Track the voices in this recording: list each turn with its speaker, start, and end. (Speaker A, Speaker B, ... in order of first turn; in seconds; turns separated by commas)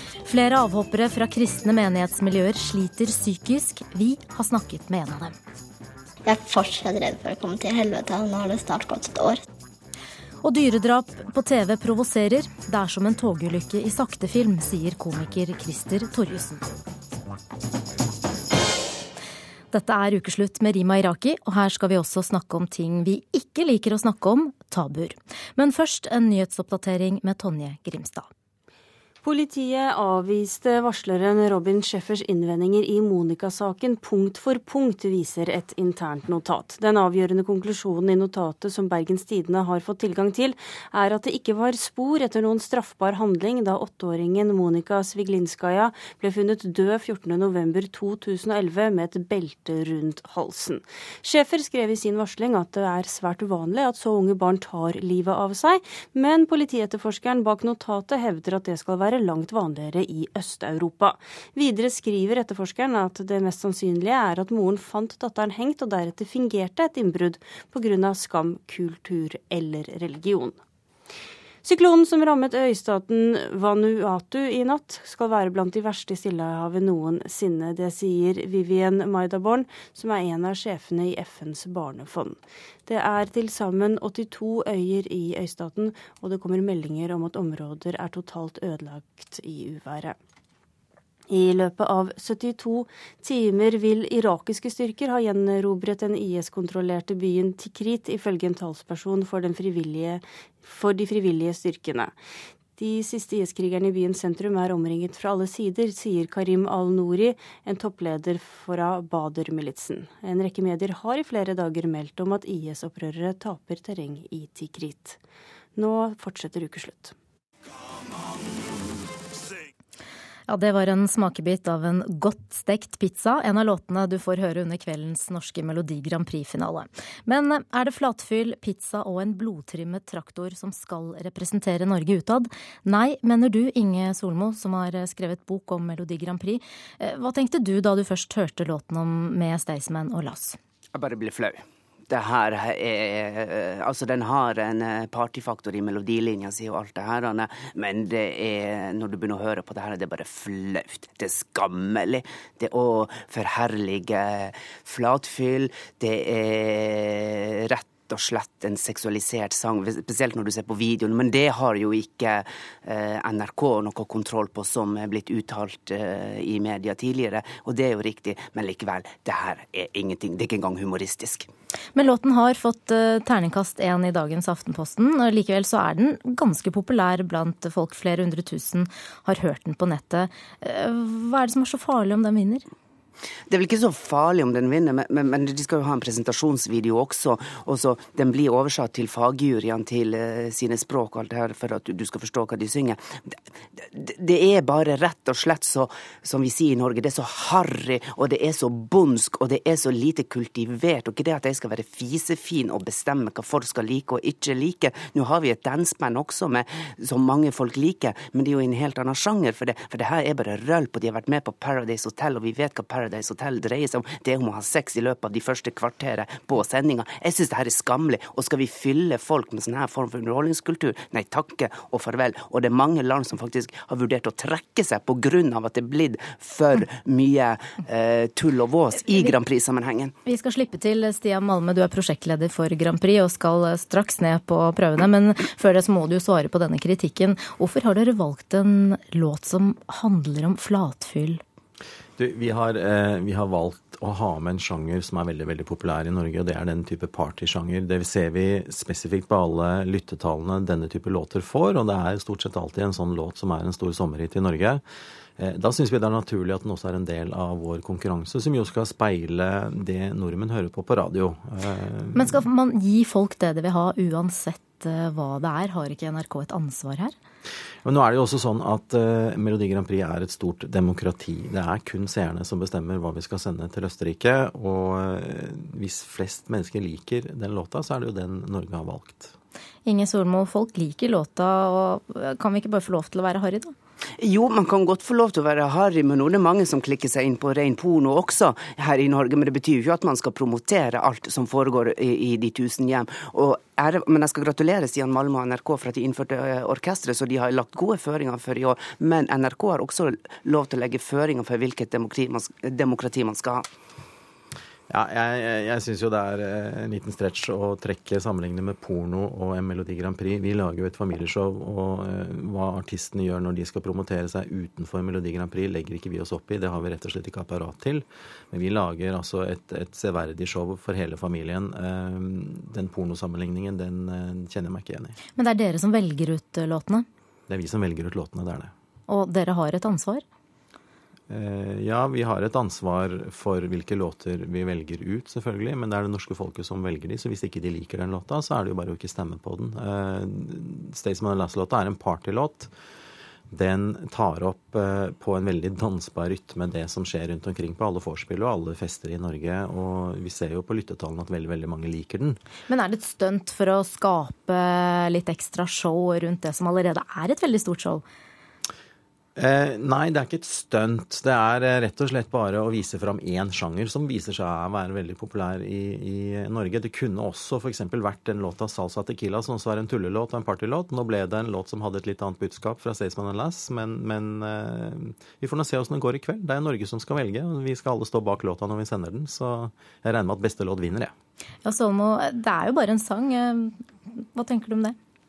Speaker A: 0.2-5.4, Speaker B: 6.2-9.4, Speaker A: 10.4-16.6, Speaker A: 19.7-28.3, Speaker C: 29.2-70.6, Speaker C: 71.6-90.2, Speaker C: 91.3-102.1, Speaker C: 102.8-115.2, Speaker C: 115.8-117.1, Speaker A: 120.5-140.6, Speaker D: 140.9-171.5, Speaker A: 171.9-182.6, Speaker D: 183.5-230.1, Speaker A: 230.2-241.4, Speaker E: 242.2-254.8, Speaker E: 255.4-262.4, Speaker A: 262.1-267.1, Speaker E: 267.8-279.3, Speaker A: 279.9-283.7, Speaker D: 284.2-303.6, Speaker E: 304.9-325.2, Speaker A: 325.4-327.1, Speaker E: 327.5-328.7, Speaker A: 329.1-330.2, Speaker E: 331.3-342.7, Speaker E: 343.5-352.4, Speaker A: 352.7-358.0, Speaker E: 359.4-381.1, Speaker A: 381.6-384.9